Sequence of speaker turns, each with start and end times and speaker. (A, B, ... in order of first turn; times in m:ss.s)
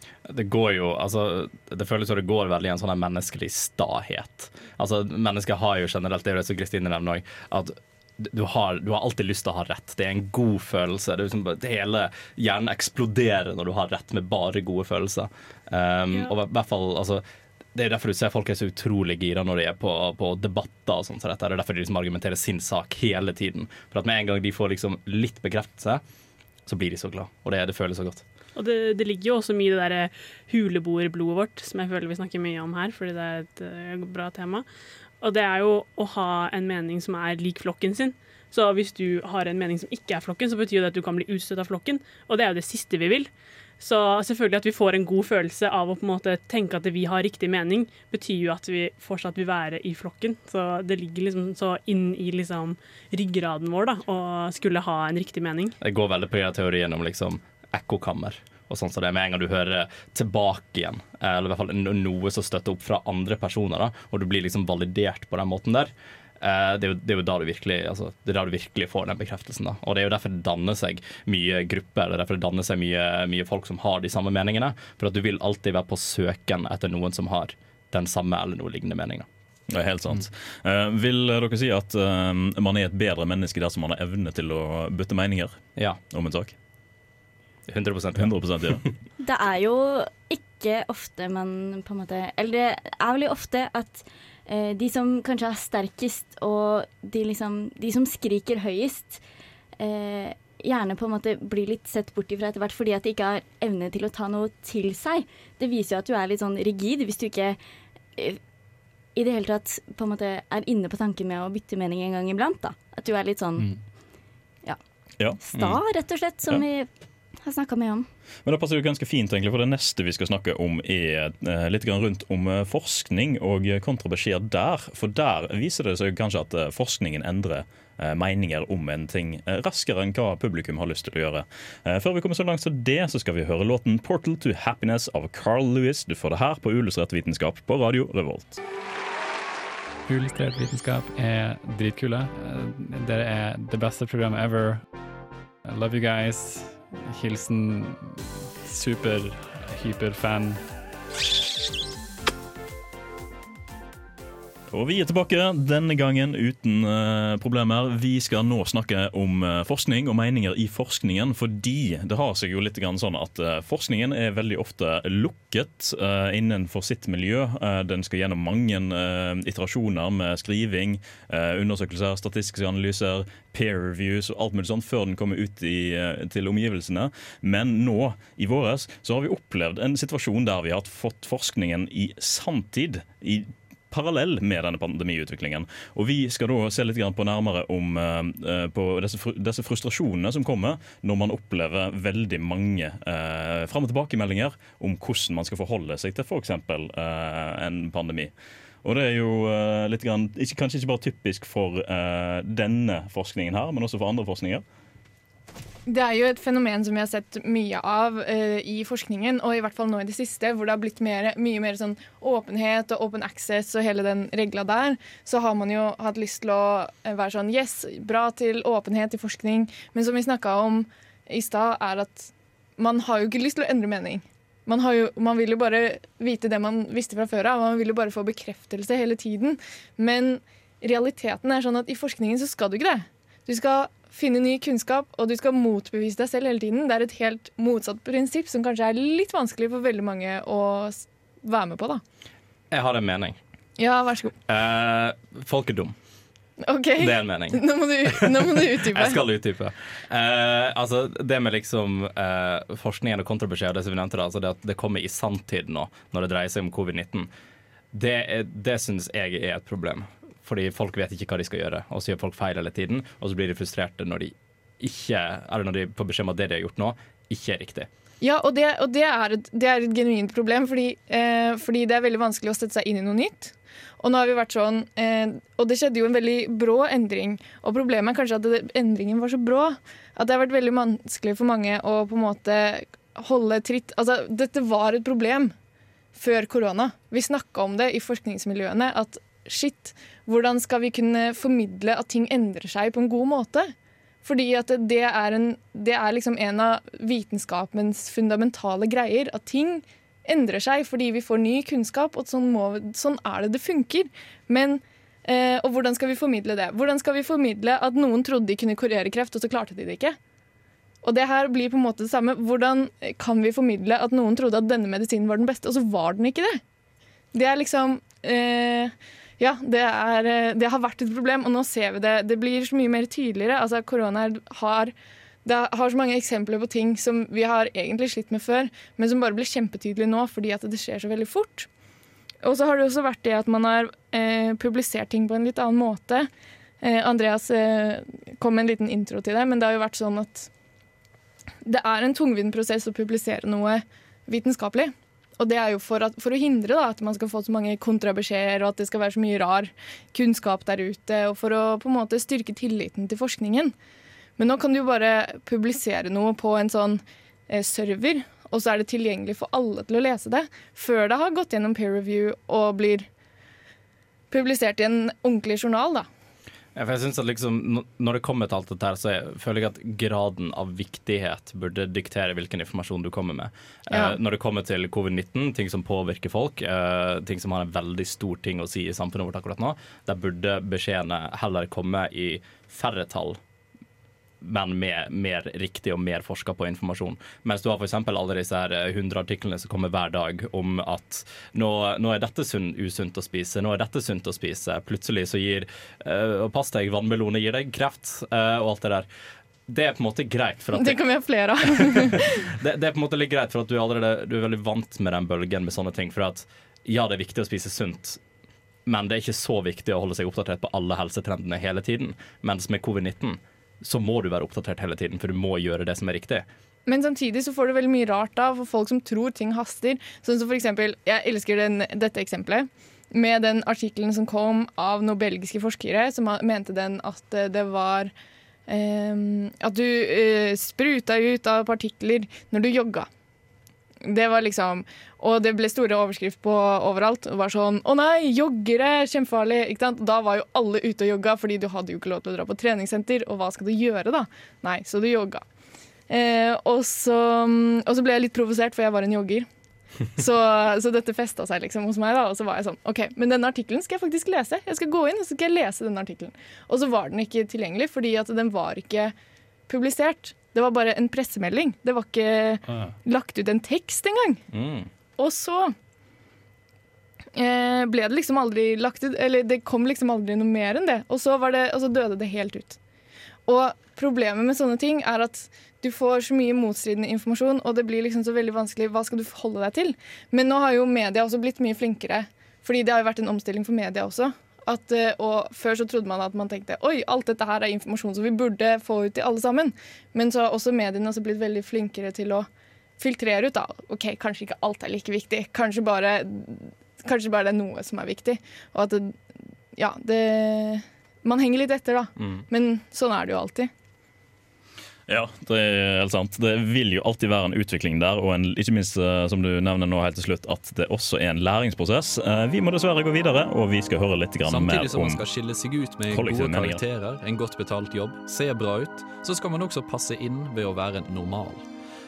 0:00.3-0:17.2 A
0:17.7-0:26.0 A
0:26.6-0:28.2 A
0:28.6-0:34.6 B
0:35.2-0:55.7 B
0:55.8-1:19.3 A
1:19.7-1:25.6 C
1:26.1-1:26.5 C
1:27.7-1:28.3 A
1:28.2-1:28.8 C
1:29.2-1:39.2 D
1:39.8-1:47.6 D
1:49.2-1:53.7 D
1:55.2-1:55.8 C
1:55.4-1:56.9 D
1:57.4-1:58.1 D
1:58.4-2:18.6 C
2:20.0-2:24.8 E
2:25.7-2:30.6 E
2:34.7-3:24.6 C
3:25.9-4:02.0 F
4:02.7-4:03.4 A
4:03.8-4:04.4 F
4:04.5-4:05.9 A
4:06.6-4:09.2 F
4:07.0-4:17.3 A
4:17.9-4:27.9 A
4:28.2-4:45.5 F
4:46.1-4:53.7 F
4:54.2-5:10.2 F
5:11.0-5:16.6 F
5:17.3-5:24.9 F
5:25.4-5:31.7 F
5:32.4-5:36.3 F
5:36.8-5:40.5 F
5:41.6-5:53.7 F
5:54.4-6:03.1 F
6:04.3-6:06.1 F
6:06.7-6:23.4 A
6:13.9-6:14.2 F
6:24.4-6:39.1 A
6:39.7-6:41.0 A
6:40.8-6:42.4 F
6:41.8-6:48.2 A
6:48.8-6:56.5 A
6:56.8-7:08.1 F
7:08.7-7:13.1 F
7:14.0-7:25.4 F
7:26.1-7:29.5 F
7:30.2-7:39.1 F
7:39.7-7:44.4 F
7:42.6-7:42.9 G
7:44.5-7:44.9 A
7:45.2-7:45.7 F
7:47.4-7:52.8 F
7:53.5-8:12.5 F
8:13.0-8:23.7 F
8:25.1-8:35.2 C
8:34.4-8:41.6 G
8:36.1-8:36.8 C